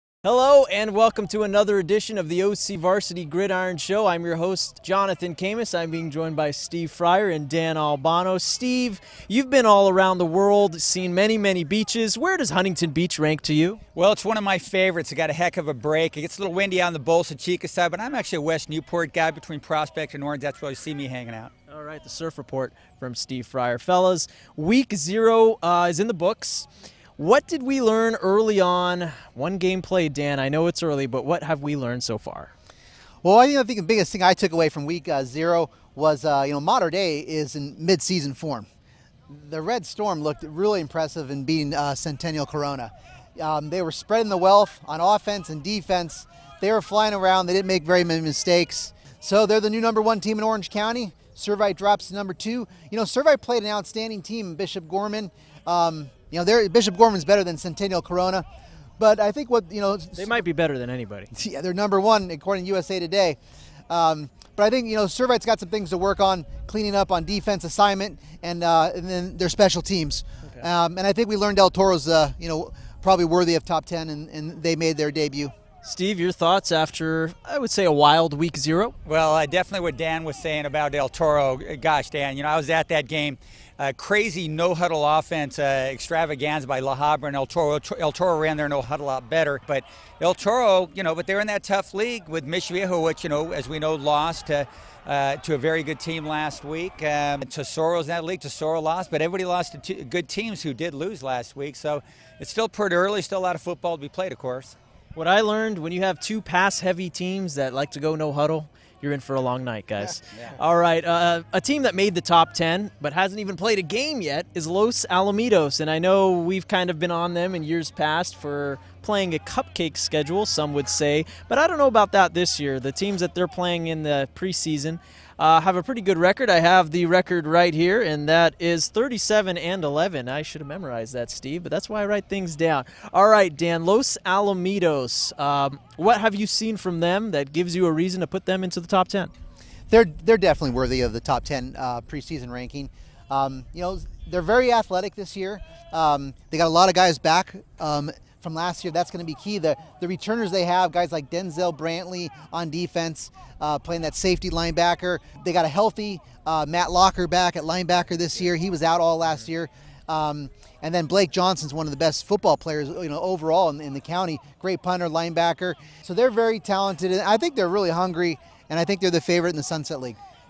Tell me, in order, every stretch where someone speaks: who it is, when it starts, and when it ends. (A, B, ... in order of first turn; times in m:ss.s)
0:00.2-0:13.8 A
0:14.0-0:21.5 B
0:21.7-0:32.5 A
0:33.2-0:38.7 C
0:39.3-0:58.4 C
0:59.0-1:00.4 C
1:00.2-1:01.3 A
1:01.3-1:03.4 C
1:03.9-1:15.5 C
1:15.8-1:19.0 A
1:19.0-1:44.8 B
1:45.2-2:19.3 A
1:50.3-1:50.6 B
2:19.9-2:50.2 C